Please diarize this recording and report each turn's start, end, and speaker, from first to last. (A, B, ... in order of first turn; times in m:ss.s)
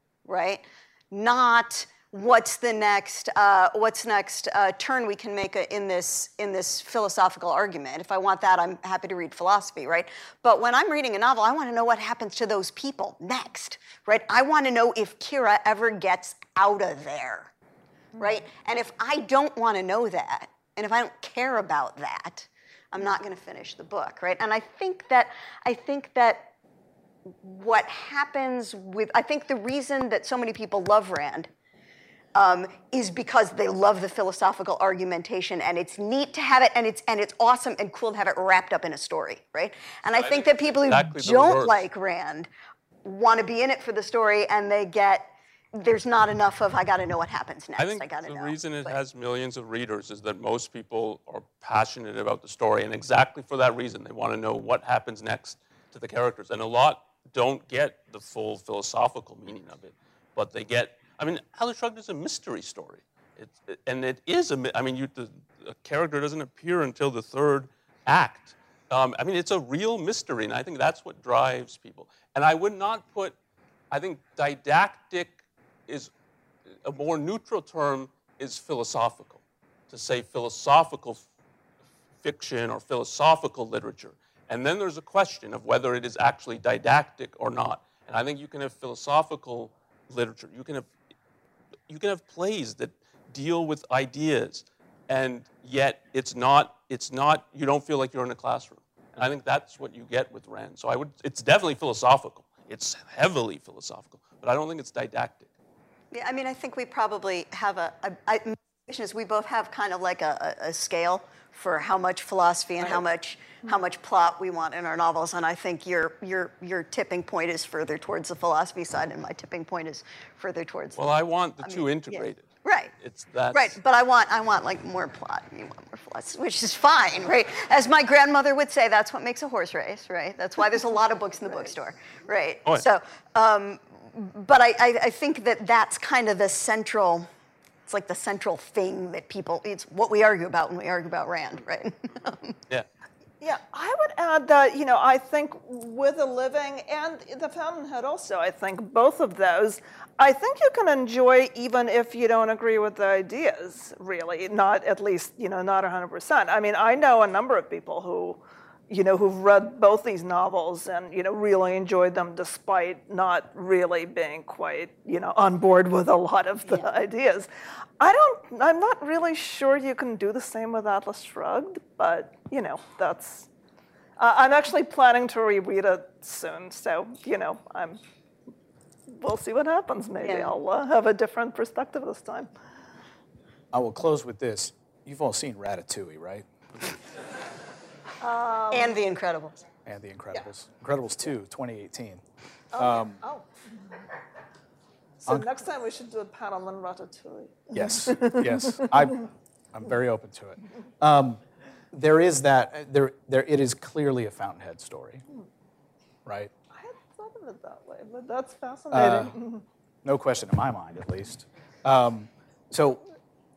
0:00.2-0:17.5 A
0:18.2-0:26.5 A
0:27.3-0:31.5 A
0:32.3-0:42.5 A
0:40.1-0:41.9 B
0:43.0-0:49.0 A
0:47.8-1:13.3 B
1:13.9-1:16.1 B
1:16.8-1:21.2 B
1:22.2-1:30.9 B
1:31.9-1:45.5 B
1:46.1-2:01.0 A
2:01.0-2:03.8 B
2:01.6-2:02.9 A
2:03.5-2:17.3 A
2:17.9-2:22.6 A
2:23.4-2:53.5 C
2:54.2-2:58.0 C
2:59.1-3:02.5 C
3:00.2-3:00.5 A
3:03.7-3:06.4 D
3:08.2-3:08.9 C
3:08.7-3:09.6 A
3:09.8-3:12.2 D
3:12.7-3:13.5 C
3:12.8-3:13.2 D
3:15.2-3:18.8 C
3:17.7-3:21.4 D
3:21.9-3:25.2 D
3:26.2-3:26.5 D
3:26.7-3:29.6 C
3:28.9-3:29.3 D
3:30.0-3:33.0 D